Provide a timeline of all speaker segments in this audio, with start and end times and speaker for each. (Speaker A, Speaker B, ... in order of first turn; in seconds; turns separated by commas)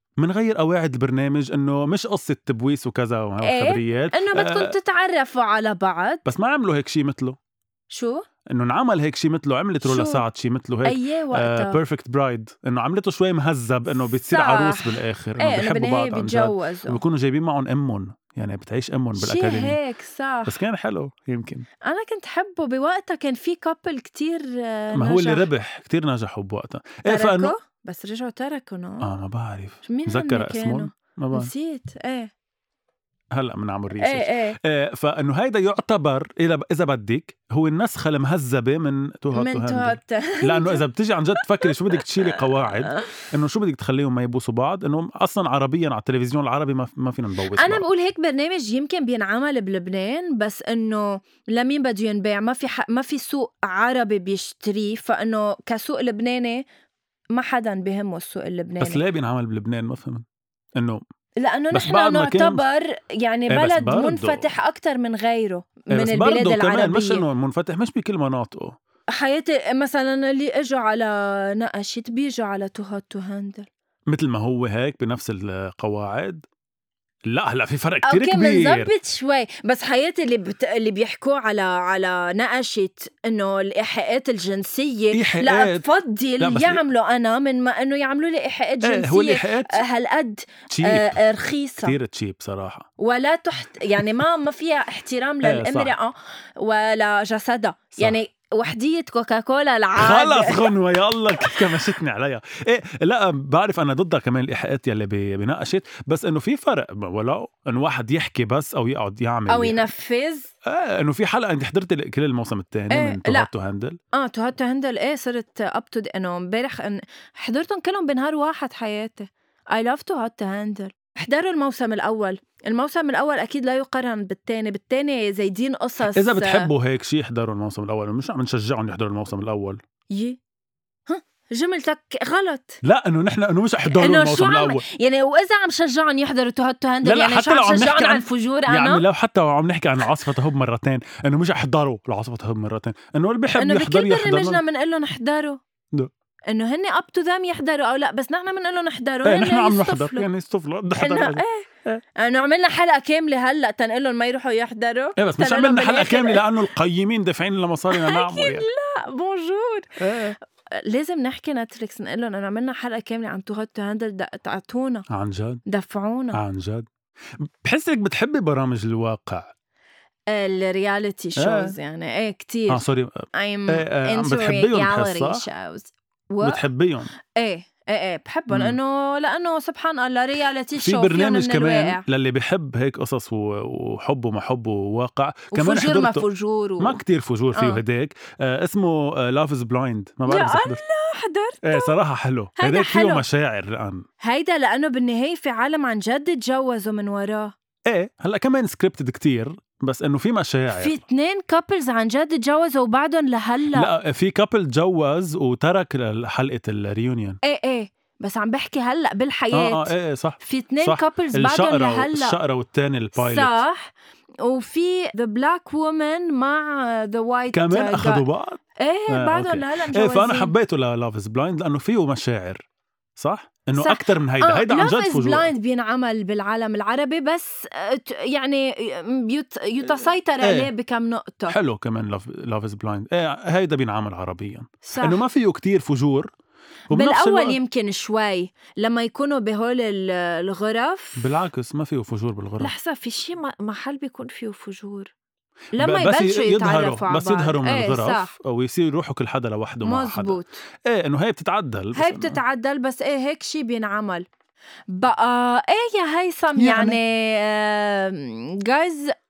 Speaker A: 0.2-4.8, Speaker B: 3.4-6.2, Speaker A: 6.2-7.4, Speaker B: 7.9-8.3, Speaker A: 8.5-19.8, Speaker B: 9.8-10.3, Speaker B: 10.8-11.8, Speaker B: 14.2-17.0, Speaker B: 19.2-20.6, Speaker A: 20.5-21.7, Speaker B: 21.8-25.4, Speaker A: 24.9-27.5, Speaker B: 27.1-29.1, Speaker A: 29.0-31.5, Speaker B: 29.8-32.3, Speaker A: 33.3-47.8, Speaker B: 34.0-34.6, Speaker B: 39.4-40.8, Speaker B: 42.2-43.2, Speaker B: 47.5-56.6, Speaker B: 57.3-59.0, Speaker A: 58.8-60.2, Speaker A: 60.8-61.0, Speaker B: 61.4-67.2, Speaker A: 61.7-62.6, Speaker A: 63.5-64.5, Speaker A: 65.9-68.8, Speaker B: 69.1-73.7, Speaker A: 74.1-76.5, Speaker A: 77.3-78.9, Speaker B: 78.0-92.0, Speaker A: 85.1-85.8, Speaker A: 86.4-86.8, Speaker A: 88.8-89.8, Speaker A: 90.7-91.2, Speaker A: 91.8-92.9, Speaker B: 93.0-100.7, Speaker A: 95.4-96.0, Speaker A: 100.0-109.9, Speaker B: 101.4-101.8, Speaker B: 109.5-110.5, Speaker A: 110.7-114.0, Speaker B: 112.9-113.5, Speaker B: 114.1-126.7, Speaker A: 126.1-129.8, Speaker B: 130.1-130.4, Speaker B: 131.1-132.8, Speaker A: 132.8-134.8, Speaker B: 133.8-139.0, Speaker A: 137.0-144.6, Speaker B: 143.6-145.6, Speaker B: 146.5-150.3, Speaker A: 149.2-152.0, Speaker B: 151.0-156.4, Speaker A: 155.2-158.7, Speaker B: 157.9-165.1, Speaker A: 160.0-160.3, Speaker A: 165.1-165.6, Speaker B: 165.7-166.4, Speaker A: 166.3-169.5, Speaker B: 170.3-176.7, Speaker A: 171.4-171.8, Speaker A: 172.7-175.5, Speaker A: 176.4-177.1, Speaker B: 177.4-182.0, Speaker A: 178.5-178.8, Speaker A: 180.8-186.2, Speaker B: 185.5-187.0, Speaker A: 186.8-190.8, Speaker B: 187.5-187.8, Speaker B: 190.3-191.9, Speaker A: 191.6-194.1, Speaker B: 192.6-193.2, Speaker B: 194.2-197.5, Speaker A: 197.9-201.0, Speaker B: 200.7-203.9, Speaker A: 203.7-207.4, Speaker B: 207.4-212.4, Speaker A: 209.5-213.6, Speaker B: 213.2-218.2, Speaker A: 217.5-222.6, Speaker B: 218.8-220.5, Speaker A: 223.2-225.5, Speaker B: 223.8-231.6, Speaker A: 230.4-230.7, Speaker A: 231.5-236.3, Speaker B: 234.8-235.2, Speaker A: 236.9-237.6, Speaker B: 236.9-241.3, Speaker A: 241.2-242.7, Speaker B: 242.6-245.1, Speaker B: 245.8-248.3, Speaker A: 245.8-252.4, Speaker B: 249.8-250.6, Speaker B: 251.9-254.3, Speaker B: 254.9-259.1, Speaker A: 256.6-257.0